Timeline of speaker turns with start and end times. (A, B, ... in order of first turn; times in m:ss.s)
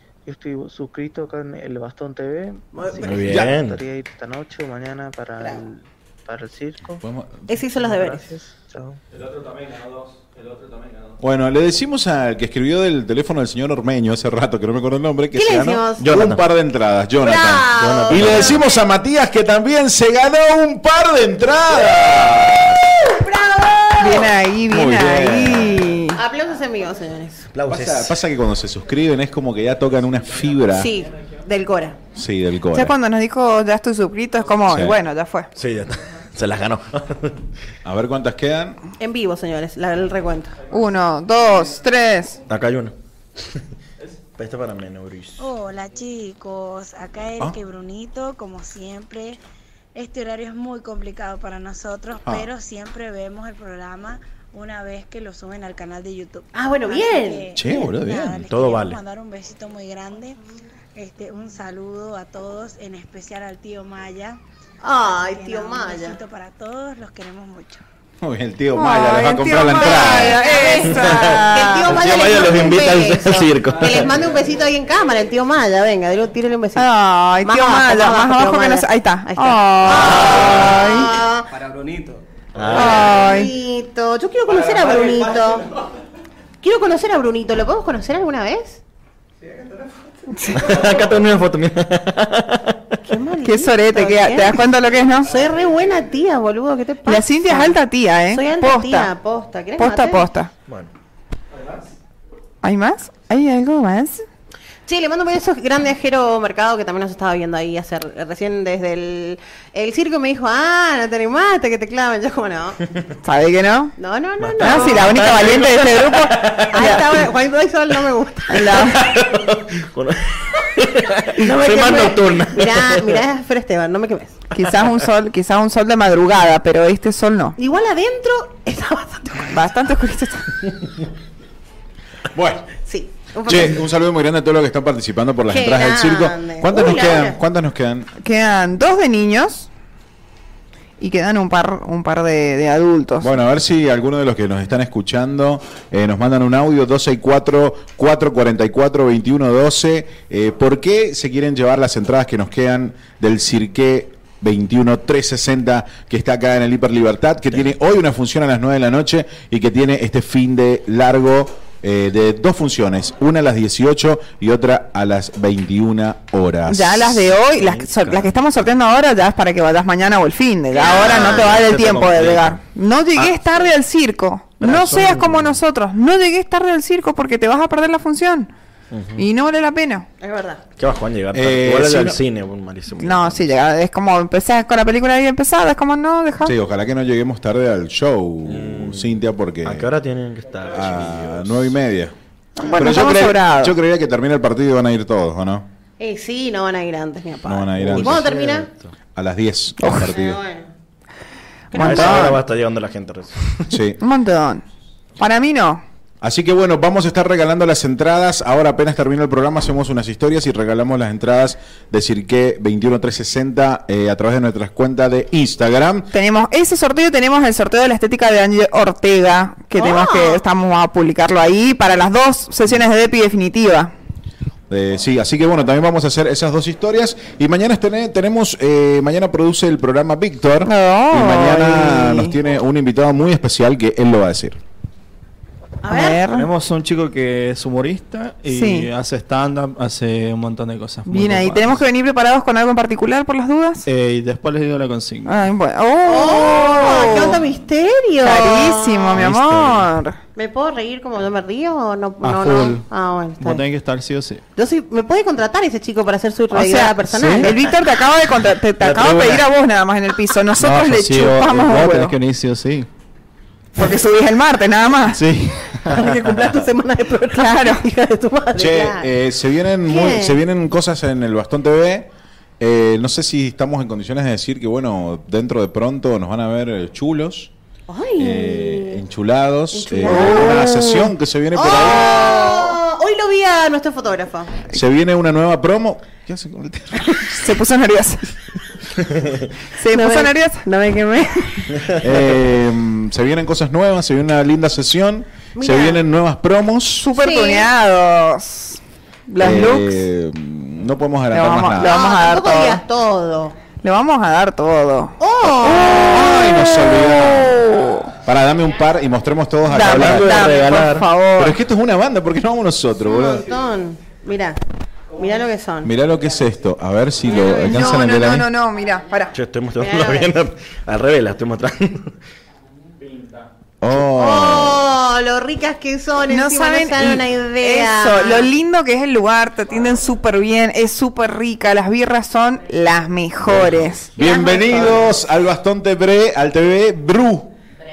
0:00.2-0:07.0 A
0:02.7-0:03.3 B
0:03.0-0:03.8 C
0:03.2-0:03.6 D
0:06.9-0:07.6 D
0:07.5-0:08.2 B
0:07.6-0:09.0 A
0:11.2-0:22.9 D
0:15.3-0:16.0 B
0:16.0-0:16.4 C
0:17.2-0:18.7 B
0:17.7-0:18.6 C
0:23.0-0:24.3 B
0:24.0-0:26.2 E
0:24.7-0:25.8 D
0:24.9-0:25.3 C
0:26.1-0:27.5 B
0:27.5-0:28.1 C
0:27.7-0:30.9 D
0:30.7-0:32.0 B
0:32.1-0:33.0 D
0:32.7-0:35.5 E
0:34.7-0:35.0 D
0:35.6-0:37.4 C
0:37.8-0:38.8 D
0:39.0-0:40.6 B
0:40.7-0:42.4 E
0:42.5-0:42.9 C
0:44.4-0:45.5 C
0:45.4-0:49.4 F
0:49.9-1:00.4 F
0:52.2-0:52.5 D
0:56.5-0:57.5 B
0:57.5-0:58.5 D
0:58.5-0:59.0 C
1:00.9-1:04.4 F
1:04.8-1:06.2 B
1:05.1-1:07.8 F
1:08.2-1:10.5 D
1:08.7-1:11.9 E
1:09.8-1:16.9 B
1:10.8-1:14.2 C
1:16.8-1:21.2 E
1:17.4-1:21.5 B
1:20.2-1:20.6 C
1:22.5-1:23.1 C
1:22.7-1:23.5 E
1:22.8-1:25.7 B
1:26.6-1:28.8 B
1:30.3-1:30.6 E
1:30.5-1:32.8 C
1:33.0-1:34.6 B
1:33.4-1:35.3 E
1:35.2-1:40.3 B
1:37.0-1:39.1 E
1:39.8-1:40.5 E
1:42.6-1:44.2 E
1:44.8-1:52.8 B
1:53.2-1:53.9 E
1:54.0-1:55.5 B
1:54.4-1:57.1 C
1:54.6-1:57.0 E
1:56.7-1:58.8 B
1:58.5-1:59.0 E
1:58.7-2:03.2 C
2:01.4-2:04.4 B
2:04.5-2:07.6 E
2:07.6-2:09.7 B
2:09.5-2:10.4 E
2:12.3-2:12.7 D
2:12.8-2:13.8 B
2:13.4-2:18.1 D
2:15.5-2:17.4 B
2:18.2-2:19.7 E
2:21.0-2:23.3 E
2:23.2-2:47.4 D
2:46.7-2:58.5 E
2:47.4-2:48.6 C
2:50.7-2:51.6 B
2:50.8-2:52.6 C
2:54.6-2:55.6 C
2:58.9-2:59.2 C
2:59.2-3:00.1 E
3:00.2-3:00.6 B
3:00.8-3:03.5 C
3:01.3-3:02.2 D
3:03.0-3:06.5 E
3:06.4-3:09.9 D
3:08.4-3:11.8 C
3:10.7-3:15.6 D
3:12.6-3:13.8 E
3:16.0-3:18.7 B
3:17.4-3:18.3 D
3:17.8-3:18.9 C
3:19.1-3:20.4 D
3:19.8-3:20.1 E
3:20.1-3:20.7 B
3:21.7-3:22.4 E
3:21.7-3:22.2 B
3:21.7-3:23.7 C
3:23.7-3:24.0 D
3:24.0-3:24.6 E
3:25.2-3:25.8 E
3:26.2-3:36.1 D
3:36.1-3:43.9 E
3:39.7-3:40.4 B
3:44.7-3:54.6 D
3:50.6-3:52.3 E
3:55.8-3:56.3 B
3:55.9-3:56.5 E
3:56.3-4:01.8 G
3:58.5-3:58.9 E
4:01.0-4:03.8 E
4:03.8-4:05.5 G
4:05.2-4:07.4 E
4:06.0-4:09.2 B
4:08.2-4:10.2 E
4:09.1-4:09.8 G
4:10.3-4:13.6 B
4:12.2-4:12.8 G
4:13.4-4:14.4 G
4:14.6-4:17.5 B
4:16.5-4:22.2 E
4:17.1-4:17.5 G
4:18.8-4:19.4 G
4:20.6-4:22.9 G
4:23.8-4:25.3 E
4:25.1-4:26.0 G
4:25.8-4:29.1 B
4:27.3-4:27.8 E
4:28.6-4:32.1 D
4:29.8-4:30.4 B
4:32.6-4:37.5 D
4:37.9-4:39.0 B
4:38.2-4:42.2 D
4:39.7-4:40.6 B
4:40.0-4:41.1 E
4:41.5-4:44.6 B
4:41.7-4:42.7 E
4:44.7-4:47.4 D
4:47.4-4:48.2 E
4:49.8-4:50.6 E
4:49.9-4:51.8 B
4:52.0-4:57.1 D
4:55.5-4:56.0 B
4:57.0-5:00.0 E
4:57.1-4:57.7 B
4:59.4-5:02.0 D
5:01.3-5:02.8 E
5:01.8-5:03.5 B
5:03.8-5:08.1 E
5:05.2-5:06.1 B
5:05.4-5:10.6 D
5:09.7-5:11.6 E
5:09.7-5:11.1 C
5:11.4-5:13.5 D
5:13.0-5:14.6 B
5:15.1-5:15.9 B
5:15.8-5:18.5 D
5:17.3-5:18.1 B
5:17.4-5:19.3 E
5:19.3-5:22.1 C
5:19.8-5:20.3 B
5:23.8-5:24.9 D
5:24.0-5:28.5 B
5:26.3-5:34.6 E
5:33.5-5:37.5 D
5:34.2-5:35.1 B